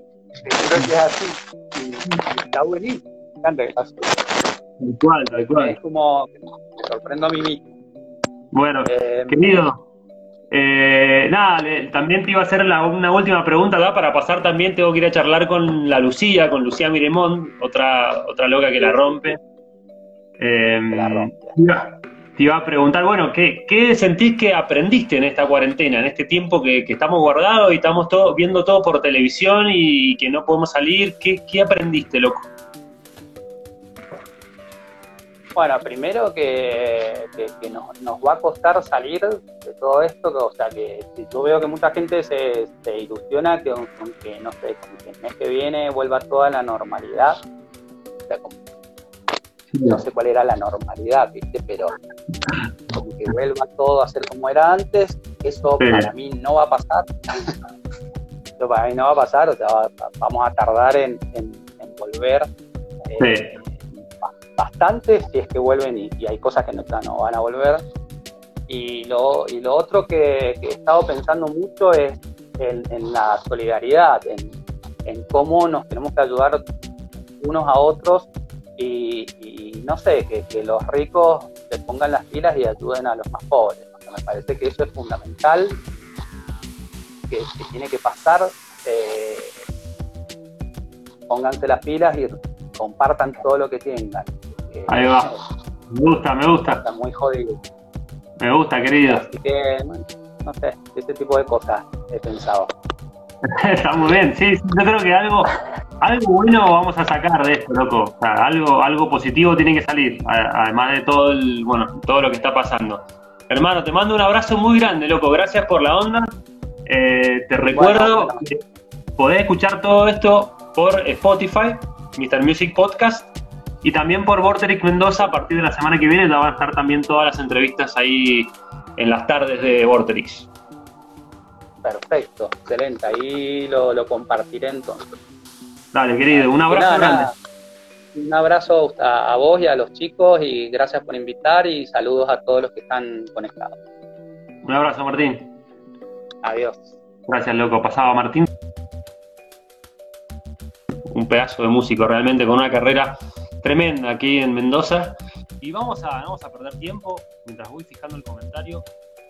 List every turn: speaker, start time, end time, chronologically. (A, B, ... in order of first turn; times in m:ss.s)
0:00.4-0:04.3 A
0:04.8-0:05.8 B
0:05.4-0:07.7 A
0:08.5-0:09.8 B
0:08.8-0:09.7 A
0:10.5-0:19.4 B
0:18.8-0:19.4 A
0:20.4-0:32.5 B
0:20.9-0:21.6 A
0:35.6-0:47.4 A
0:48.3-0:48.6 A
0:49.7-0:50.0 B
0:49.9-0:52.0 A
0:52.9-0:57.6 A
0:55.8-0:56.1 B
0:58.6-1:02.5 A
1:03.1-1:07.8 A
1:03.2-1:03.6 B
1:08.7-1:14.6 A
1:15.1-1:16.6 A
1:17.4-1:25.8 A
1:27.3-1:29.6 A
1:31.3-1:35.4 A
1:34.9-1:35.3 B
1:35.9-1:36.8 B
1:36.7-1:37.6 A
1:38.4-1:39.2 B
1:39.0-1:42.7 A
1:43.4-1:56.3 B
1:56.9-1:58.6 B
1:57.7-1:58.5 A
1:59.2-2:03.3 B
2:03.8-2:10.5 B
2:11.8-2:15.1 A
2:15.9-2:17.3 B
2:16.3-2:17.4 A
2:18.1-2:23.8 A
2:24.6-2:25.5 B
2:26.4-2:26.9 A
2:27.3-2:28.5 B
2:31.1-2:38.9 B